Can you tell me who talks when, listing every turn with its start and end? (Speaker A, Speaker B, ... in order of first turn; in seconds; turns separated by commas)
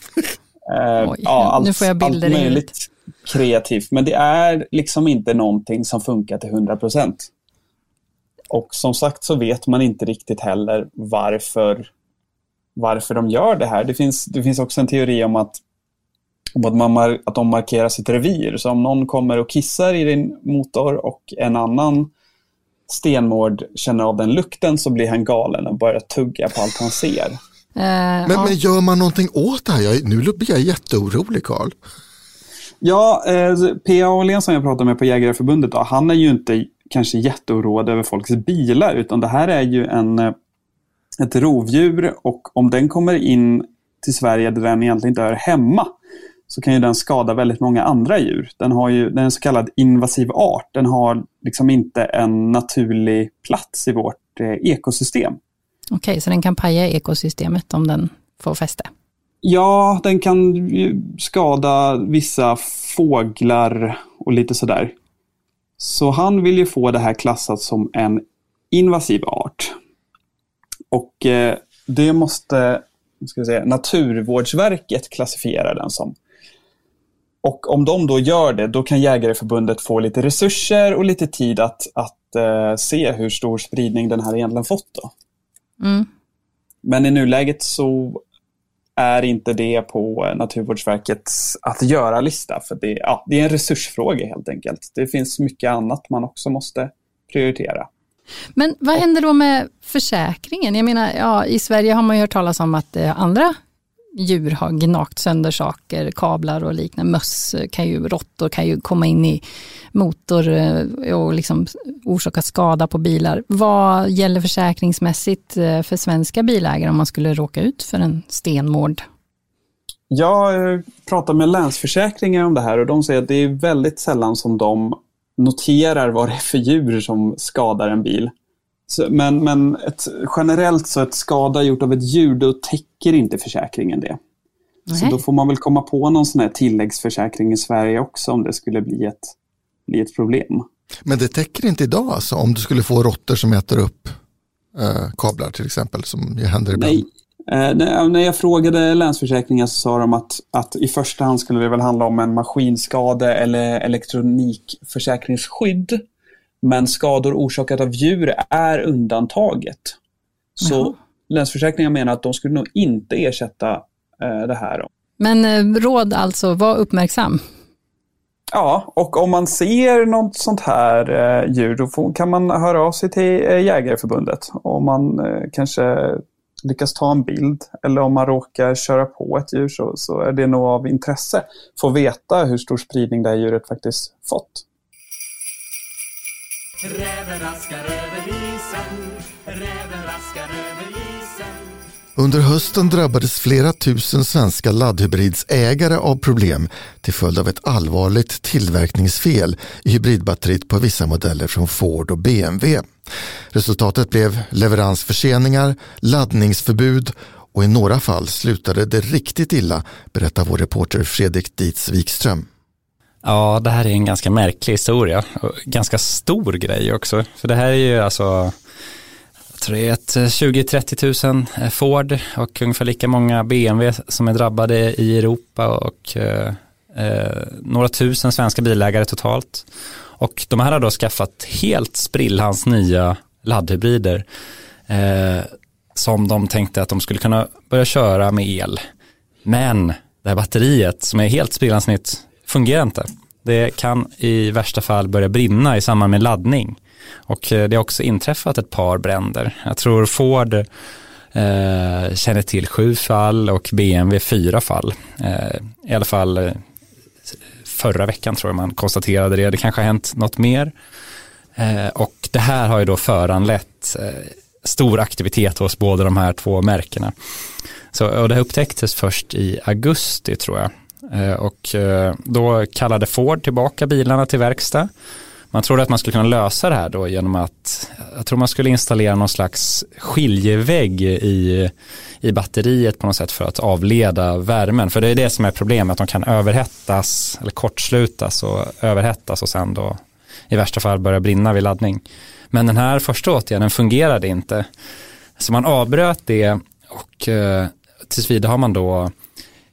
Speaker A: 0.7-7.3, Speaker B: 1.0-2.7, Speaker A: 8.5-11.9, Speaker A: 12.8-15.6, Speaker A: 16.6-22.1, Speaker A: 22.9-27.4, Speaker B: 27.8-28.6, Speaker C: 28.3-31.7, Speaker A: 32.8-40.3, Speaker A: 41.2-45.9, Speaker A: 46.5-55.4, Speaker B: 55.9-58.9, Speaker A: 59.4-64.9, Speaker A: 65.8-69.7, Speaker A: 70.9-76.1, Speaker A: 77.4-85.1, Speaker B: 85.8-86.1, Speaker A: 86.8-88.2, Speaker A: 89.0-97.9, Speaker B: 98.5-103.6, Speaker B: 104.2-119.0, Speaker A: 120.1-128.3, Speaker A: 128.9-134.2, Speaker B: 134.9-135.2, Speaker A: 134.9-139.3, Speaker A: 139.9-140.6, Speaker C: 141.1-144.2, Speaker C: 144.7-147.1, Speaker A: 146.7-156.0, Speaker A: 156.6-159.9, Speaker A: 160.6-164.9, Speaker B: 160.6-160.9, Speaker B: 165.2-167.4, Speaker A: 168.5-184.6, Speaker C: 192.2-202.9, Speaker C: 203.5-212.4, Speaker D: 213.2-218.6, Speaker D: 219.6-229.7, Speaker D: 230.2-234.2, Speaker D: 234.9-238.8, Speaker D: 239.4-250.7, Speaker D: 251.3-256.6, Speaker D: 257.6-260.7, Speaker D: 261.6-267.1, Speaker D: 267.9-274.9, Speaker D: 275.5-294.7, Speaker D: 295.4-299.1